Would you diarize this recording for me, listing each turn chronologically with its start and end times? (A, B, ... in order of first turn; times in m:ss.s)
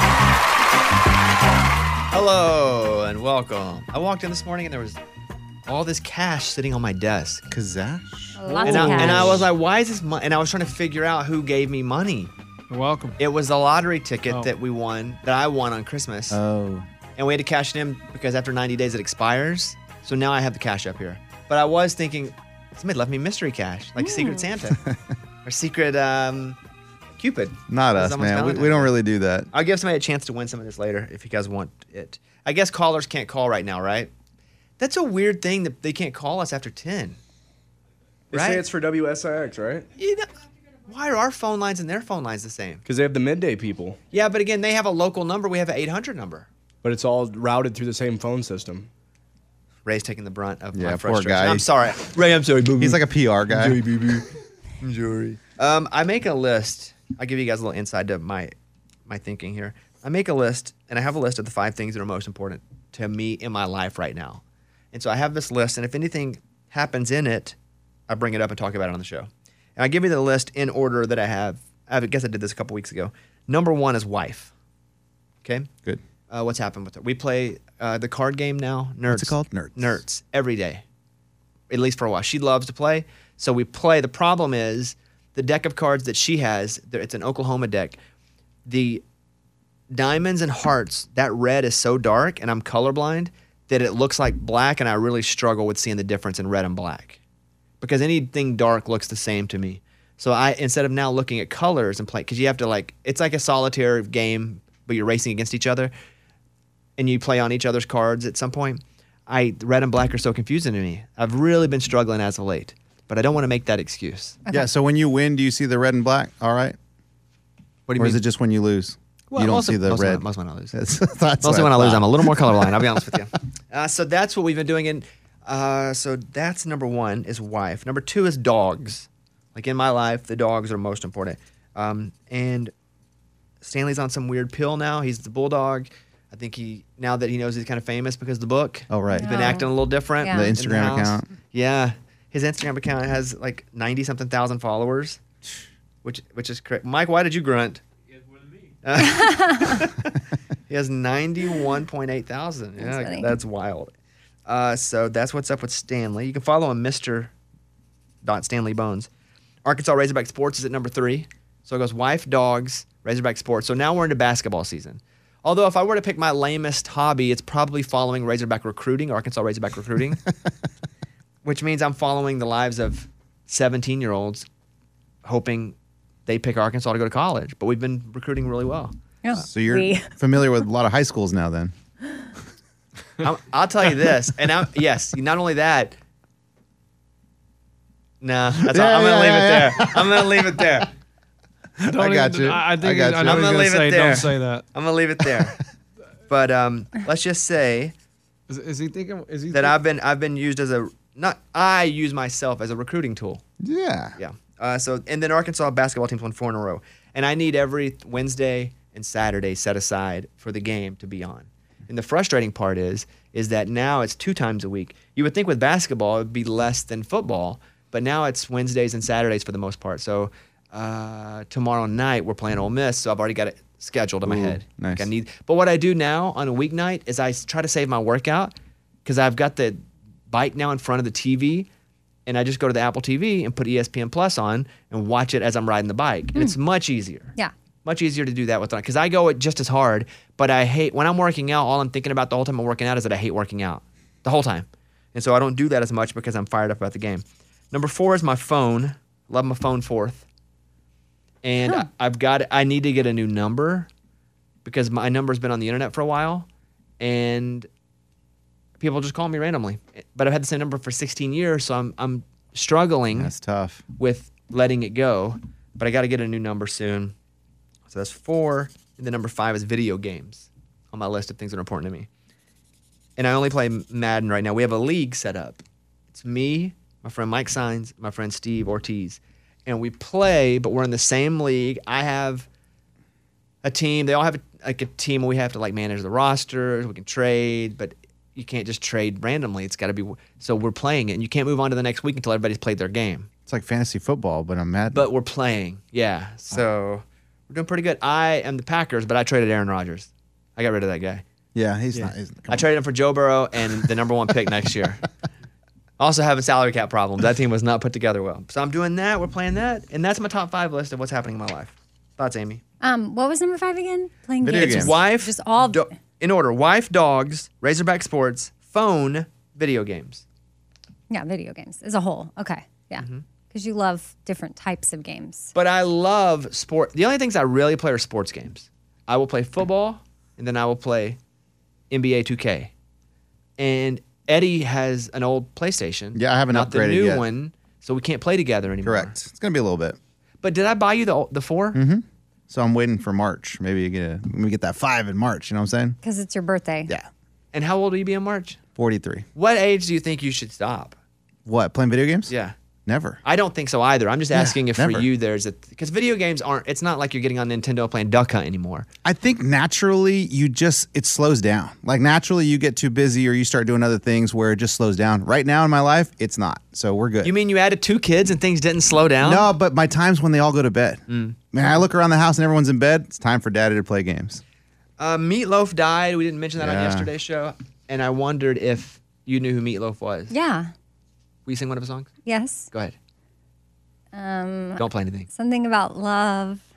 0:02.1-0:05.0 A
0:05.7-0:07.4 A
0:07.5-0:09.5 B
0:08.4-0:09.4 C
0:08.6-0:12.3 A
0:12.7-0:13.2 D
0:13.2-0:16.4 A
0:16.3-0:16.9 B
0:17.2-0:24.8 A
0:24.0-0:24.5 C
0:25.4-0:26.6 A
0:27.2-0:28.9 A
0:27.7-0:29.5 B
0:29.5-0:34.1 A
0:34.8-0:37.2 A
0:38.3-0:38.6 A
0:38.3-0:39.9 E
0:40.0-0:40.3 A
0:40.9-0:42.8 A
0:42.9-0:44.0 E
0:44.1-0:46.5 A
0:46.8-0:48.9 E
0:49.8-0:53.0 A
0:50.7-0:51.7 B
0:52.8-0:53.8 B
0:53.5-0:54.3 A
0:54.8-0:58.5 A
0:59.1-1:04.4 A
1:04.9-1:07.6 A
1:08.1-1:14.5 A
1:15.4-1:15.7 A
1:16.3-1:20.8 A
1:19.1-1:20.0 B
1:21.7-1:28.0 A
1:28.7-1:29.0 A
1:29.9-1:37.2 A
1:37.8-1:45.9 A
1:47.0-1:54.4 A
1:54.5-1:56.8 B
1:57.9-1:58.2 A
1:58.0-2:02.9 B
1:59.3-2:00.8 A
2:01.4-2:12.7 A
2:13.6-2:25.2 A
2:18.9-2:19.6 B
2:19.1-2:19.7 C
2:20.2-2:20.5 C
2:20.3-2:21.3 B
2:26.0-2:27.8 A
2:28.8-2:30.1 A
2:29.0-2:29.8 C
2:30.7-2:33.9 A
2:32.8-2:33.3 C
2:34.5-2:37.3 A
2:38.2-2:39.1 A
2:39.6-2:50.2 A
2:51.4-2:54.5 A
2:55.2-2:55.8 A
2:56.3-2:58.9 A
2:59.2-3:00.1 C
2:59.4-3:01.7 B
3:03.2-3:06.0 A
3:08.2-3:10.9 A
3:08.6-3:10.8 B
3:11.8-3:13.5 B
3:11.8-3:14.6 D
3:13.2-3:15.6 A
3:16.3-3:17.9 A
3:18.5-3:19.8 D
3:19.5-3:23.4 A
3:23.6-3:24.2 B
3:24.2-3:48.5 A
3:44.2-3:45.1 B
3:49.0-3:51.7 A
3:52.3-3:57.3 A
3:57.8-4:10.3 A
4:11.4-4:13.9 A
4:14.6-4:16.5 A
4:17.0-4:17.7 A
4:18.8-4:23.3 A
4:23.1-4:23.8 B
4:24.0-4:27.2 A
4:27.9-4:32.1 A
4:33.2-4:42.5 A
4:43.6-4:53.3 A
4:53.5-4:55.1 B
4:54.9-5:01.2 A
5:01.6-5:02.7 B
5:01.9-5:05.0 A
5:06.0-5:12.6 A
5:12.8-5:15.9 C
5:14.4-5:15.0 B
5:14.5-5:20.2 A
5:21.1-5:25.5 C
5:25.6-5:31.2 A
5:31.9-5:32.7 A
5:33.6-5:39.2 A
5:36.2-5:37.2 B
5:38.8-5:40.0 B
5:40.4-5:41.8 A
5:41.7-5:46.0 B
5:46.0-5:46.9 C
5:47.5-5:48.6 A
5:48.8-5:49.3 B
5:49.4-5:51.0 A
5:51.5-5:52.3 B
5:52.3-5:52.6 A
5:52.9-5:53.2 B
5:53.2-5:58.9 A
5:54.3-5:55.1 B
5:59.0-6:07.4 B
6:07.2-6:09.5 A
6:09.2-6:14.4 B
6:11.1-6:11.4 A
6:15.0-6:20.3 A
6:16.6-6:17.1 B
6:20.3-6:20.7 C
6:21.5-6:22.1 A
6:22.3-6:22.7 C
6:24.1-6:26.6 C
6:24.8-6:25.3 A